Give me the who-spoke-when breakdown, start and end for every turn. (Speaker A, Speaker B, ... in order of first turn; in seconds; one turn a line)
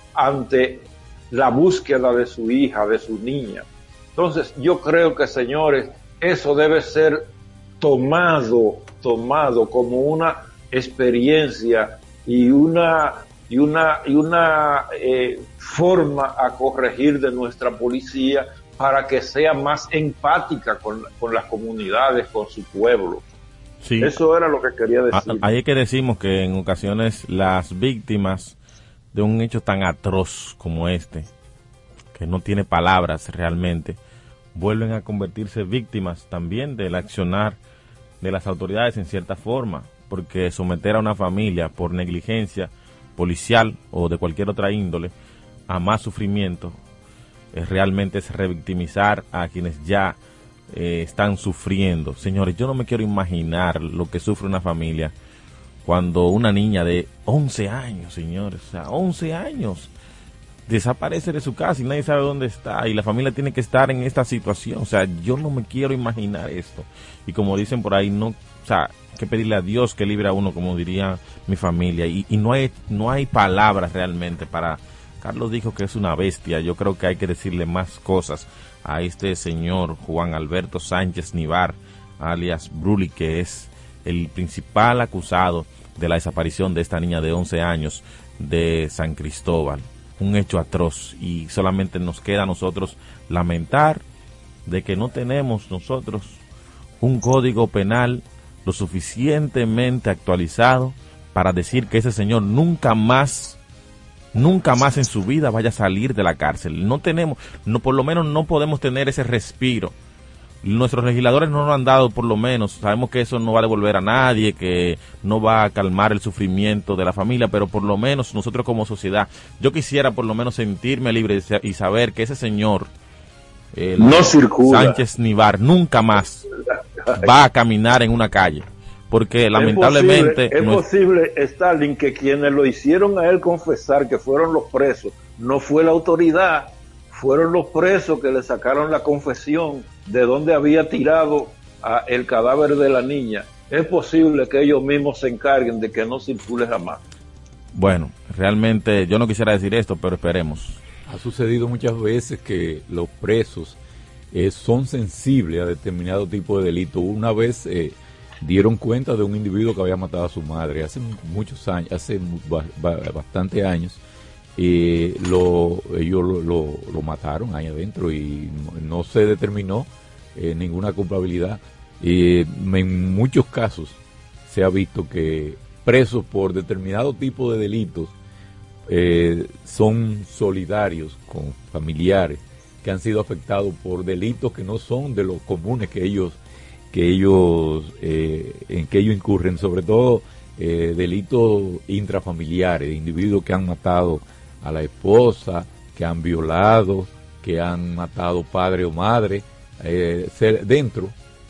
Speaker A: 0.1-7.2
Speaker A: 7.8-23.2
Speaker B: 23.8-24.1
Speaker A: 24.0-25.4
Speaker B: 25.1-28.6
Speaker B: 29.1-31.3
Speaker B: 32.1-34.0
Speaker B: 34.5-37.6
Speaker B: 38.2-45.1
Speaker B: 45.7-46.8
Speaker B: 47.5-50.2
Speaker B: 50.7-55.1
Speaker B: 55.8-59.9
Speaker B: 60.7-94.0
Speaker B: 94.7-96.4
Speaker B: 97.0-103.6
Speaker B: 104.3-109.9
Speaker B: 110.6-122.9
Speaker B: 123.7-126.5
Speaker A: 124.0-125.0
Speaker A: 126.6-127.3
Speaker B: 127.1-130.8
Speaker A: 129.6-147.0
Speaker B: 147.7-150.8
Speaker C: 151.0-153.8
Speaker C: 154.3-164.0
Speaker C: 164.6-178.1
Speaker C: 178.9-186.4
Speaker C: 186.9-201.1